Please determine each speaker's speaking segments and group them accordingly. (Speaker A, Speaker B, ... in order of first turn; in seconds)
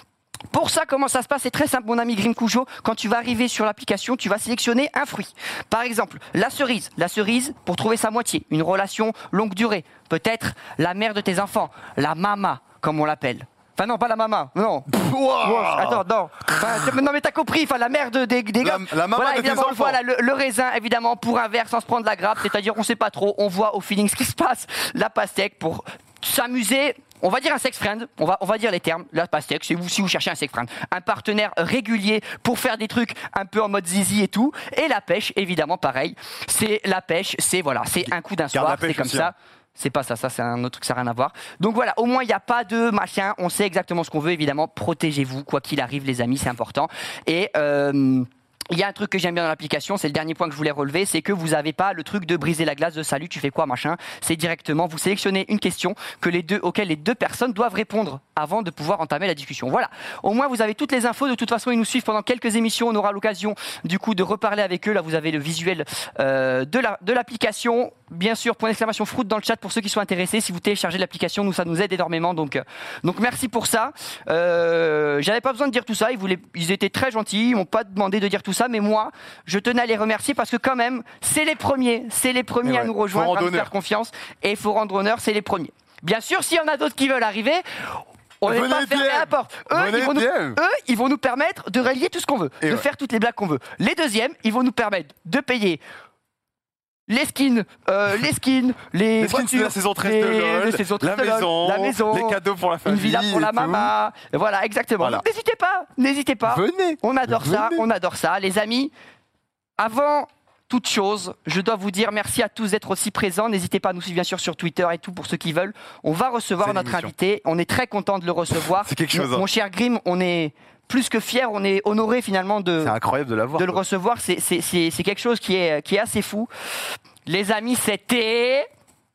Speaker A: 0.5-14.9, 15.4-95.8, 97.1-108.9, 109.8-122.9, 123.5-126.5, 127.2-128.7
Speaker B: 14.9-16.0, 18.6-20.0, 38.0-39.3, 82.6-83.7, 88.4-90.6, 99.2-103.9, 106.5-107.8, 116.6-117.1, 118.7-119.5, 122.8-123.8